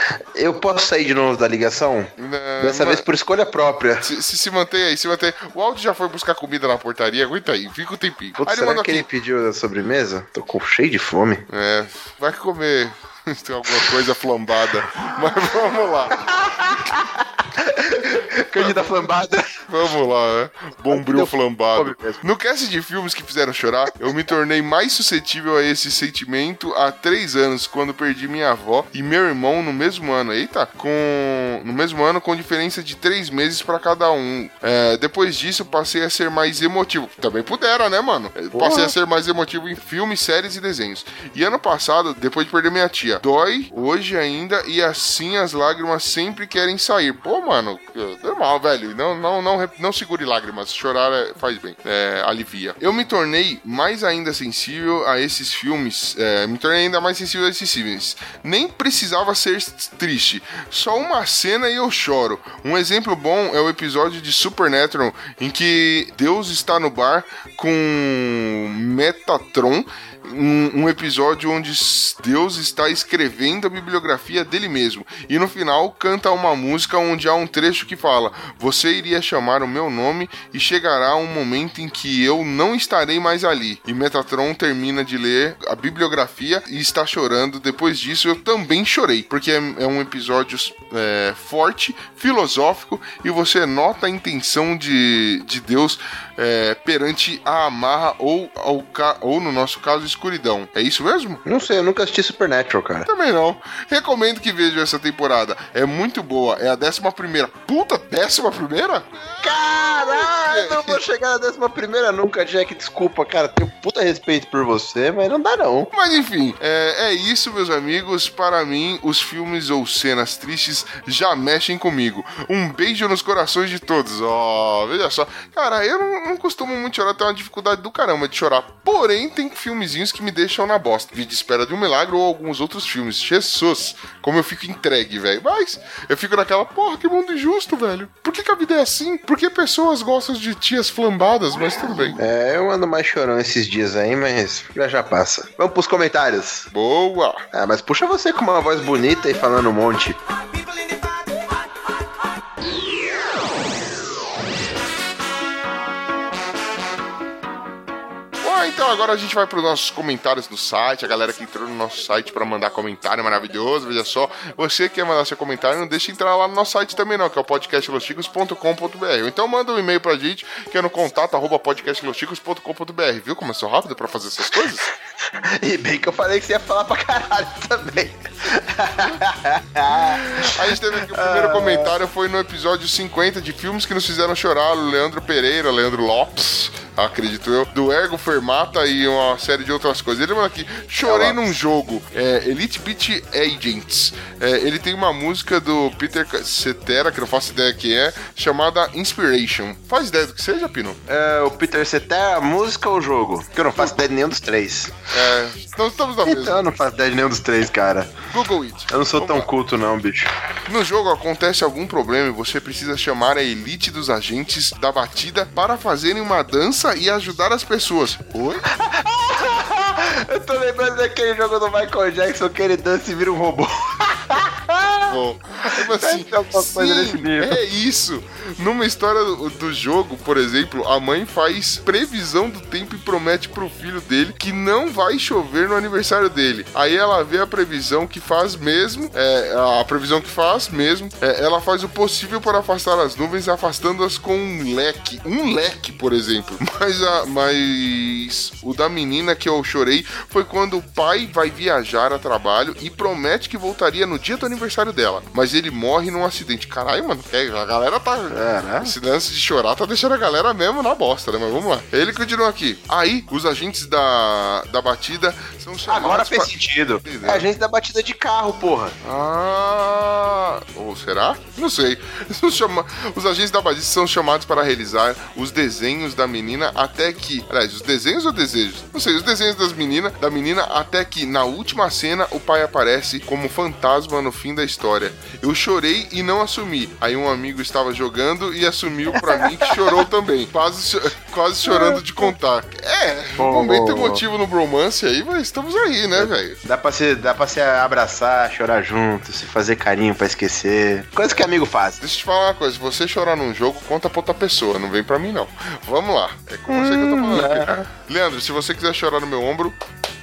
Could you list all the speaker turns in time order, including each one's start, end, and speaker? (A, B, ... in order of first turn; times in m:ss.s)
0:00.3-0:04.1 A
0:02.2-0:03.0 B
0:04.0-0:09.1 B
0:08.4-0:11.4 A
0:11.5-0:16.9 B
0:16.4-0:19.4 A
0:18.5-0:18.9 B
0:19.7-1:41.4 B
0:20.9-0:22.2 A
0:38.5-0:38.9 A
1:41.4-1:43.1 A
1:43.1-1:51.0 B
1:49.4-1:55.9 A
1:55.9-2:22.2 B
2:22.2-2:26.7 A
2:26.7-2:27.4 B
2:27.5-2:30.2 A
2:38.4-2:54.8 B
2:55.5-3:01.9 A
2:59.9-3:21.0 B
3:11.0-3:11.6 A
3:21.1-3:25.1 A
3:25.1-3:26.6 B
3:26.2-3:28.2 A
3:28.3-3:29.5 B
3:28.9-3:30.3 A
3:30.7-3:38.6 B
3:38.8-3:45.1 A
3:45.1-4:26.5 B
3:45.8-3:47.6 A
4:18.3-4:18.9 A
4:25.9-4:29.0 A
4:27.0-4:27.5 B
4:29.0-4:56.6 B
4:49.2-4:49.7 A
4:51.6-4:52.0 A
4:53.4-4:54.2 A
4:56.2-5:02.0 A
5:02.0-5:09.8 B
5:06.7-5:07.9 A